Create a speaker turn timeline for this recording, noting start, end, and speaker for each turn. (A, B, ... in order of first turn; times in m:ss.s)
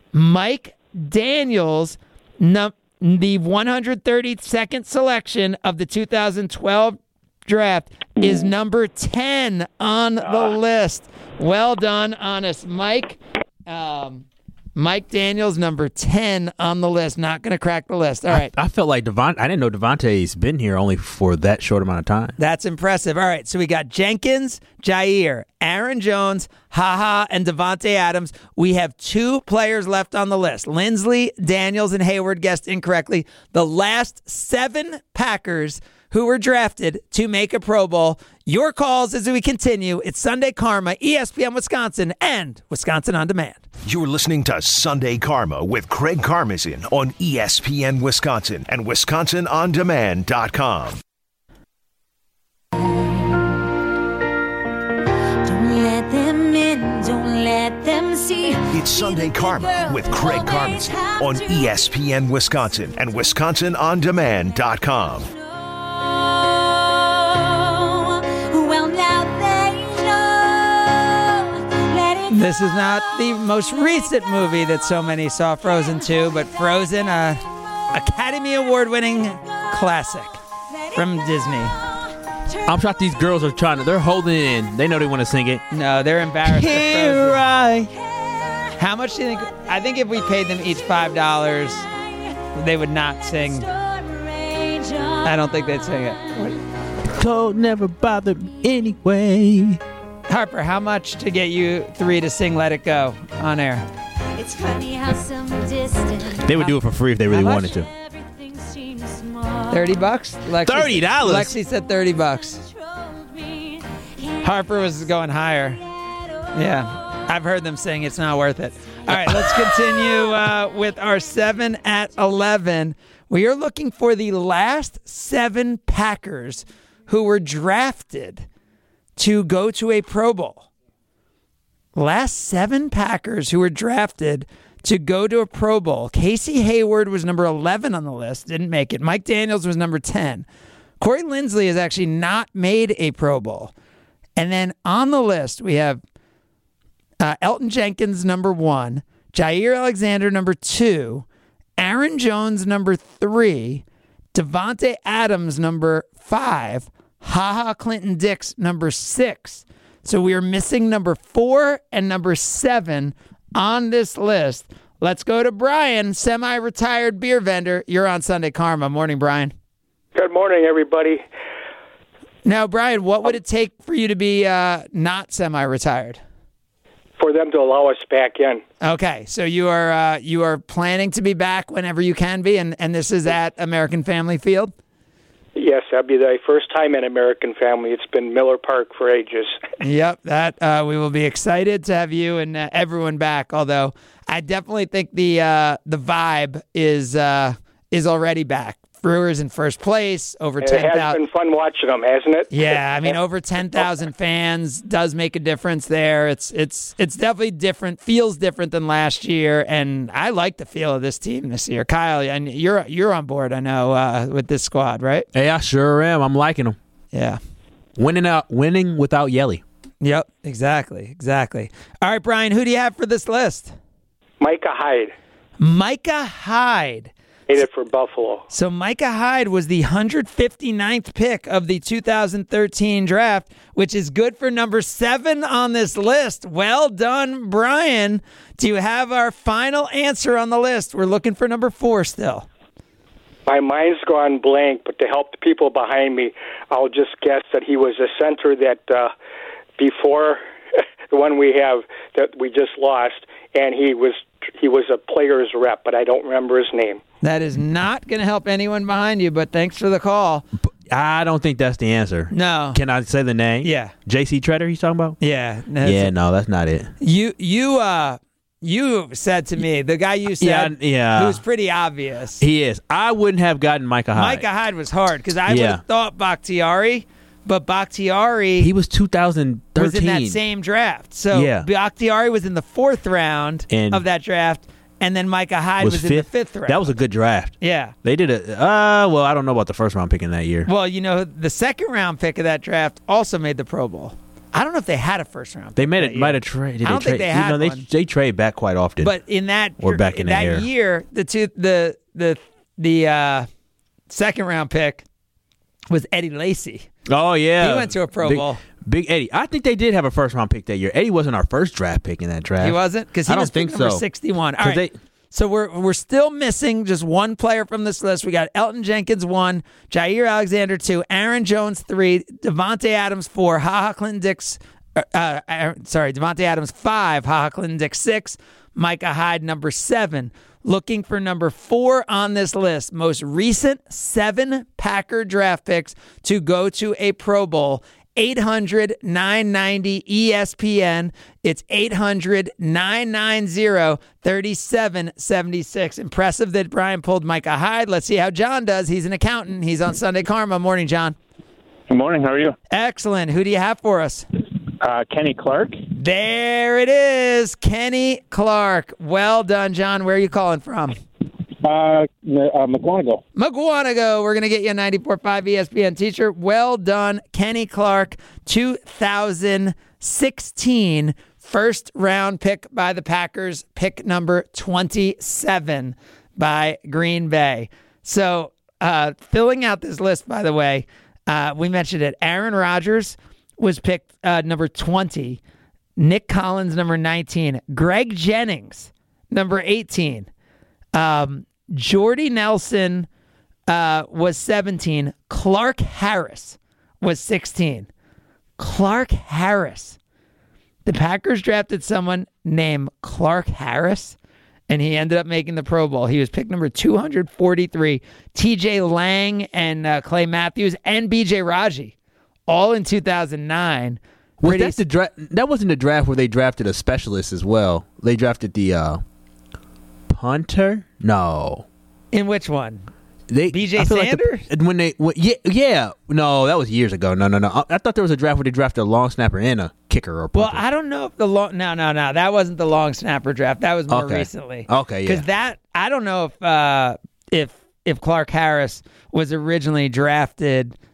0:00.1-0:18.5 A
0:18.3-0:22.3 B
0:22.4-0:43.6 A
0:43.8-0:51.0 C
0:55.4-1:01.9 D
0:58.7-1:05.3 C
1:05.6-1:12.5 D
1:12.3-1:20.4 A
1:20.9-1:21.7 A
1:22.6-1:25.6 B
1:25.7-1:27.4 A
1:26.4-1:27.9 B
1:28.8-1:31.8 A
1:32.5-1:33.7 A
1:33.4-1:36.2 D
1:35.2-1:36.6 A
1:37.1-1:39.8 B
1:40.3-1:43.8 A
1:44.4-1:46.8 D
1:46.4-1:47.9 B
1:47.3-1:47.7 A
1:47.4-1:49.9 D
1:49.7-1:52.6 A
1:50.6-1:51.5 B
1:52.7-1:54.9 D
1:54.4-1:55.8 A
1:56.1-1:56.4 D
1:56.5-2:08.4 A
1:59.1-1:59.5 B
2:09.2-2:10.7 A
2:11.9-2:20.4 A
2:21.0-2:23.7 A
2:24.4-2:26.0 A
2:27.2-2:31.2 A
2:31.8-2:49.5 A
2:50.1-2:51.2 E
2:52.4-2:56.2 A
2:57.2-2:58.6 E
2:58.8-3:04.7 A
3:05.6-3:09.6 E
3:09.8-3:21.2 A
3:20.6-3:23.1 E
3:22.5-3:35.3 A
3:35.3-3:36.8 B
3:37.1-3:37.4 A
3:38.0-3:39.6 B
3:40.0-3:43.7 A
3:44.4-3:45.1 E
3:45.6-3:47.1 A
3:47.5-3:48.4 E
3:48.5-4:02.5 A
4:03.5-4:09.1 E
4:09.8-4:10.4 E
4:11.1-4:17.0 E
4:17.2-4:20.4 A
4:20.9-4:25.2 B
4:22.3-4:22.8 A
4:23.6-4:23.9 A
4:25.2-4:26.1 A
4:25.8-4:26.9 B
4:27.0-4:32.4 A
4:30.4-4:31.4 B
4:32.4-4:34.4 B
4:34.1-4:38.7 A
4:35.5-4:35.8 B
4:38.6-4:40.4 B
4:39.8-4:46.9 A
4:41.3-4:41.7 B
4:43.7-4:44.0 B
4:45.8-4:50.7 B
4:47.6-4:47.9 A
4:50.6-4:57.8 A
4:55.8-4:59.1 B
4:59.0-5:03.5 A
4:59.8-5:00.7 B
5:04.1-5:05.0 A
5:05.9-5:06.9 A
5:07.1-5:14.0 B
5:07.6-5:08.6 A
5:12.6-5:51.2 A
5:14.6-5:14.9 B
5:51.9-5:52.5 F
5:52.7-5:54.2 A
5:54.8-5:55.8 F
5:55.9-6:01.0 A
6:01.6-6:03.2 F
6:03.4-6:25.4 A
6:26.0-6:30.3 A
6:30.9-6:33.1 A
6:33.7-6:37.9 A
6:38.6-6:40.0 A
6:40.8-6:44.2 A
6:44.7-6:51.9 A
6:52.5-6:54.8 A
6:54.4-6:59.0 B
7:00.1-7:01.6 B
7:02.1-7:02.9 A
7:03.3-7:10.6 B
7:03.5-7:04.5 A
7:10.3-7:20.8 A
7:13.9-7:15.2 B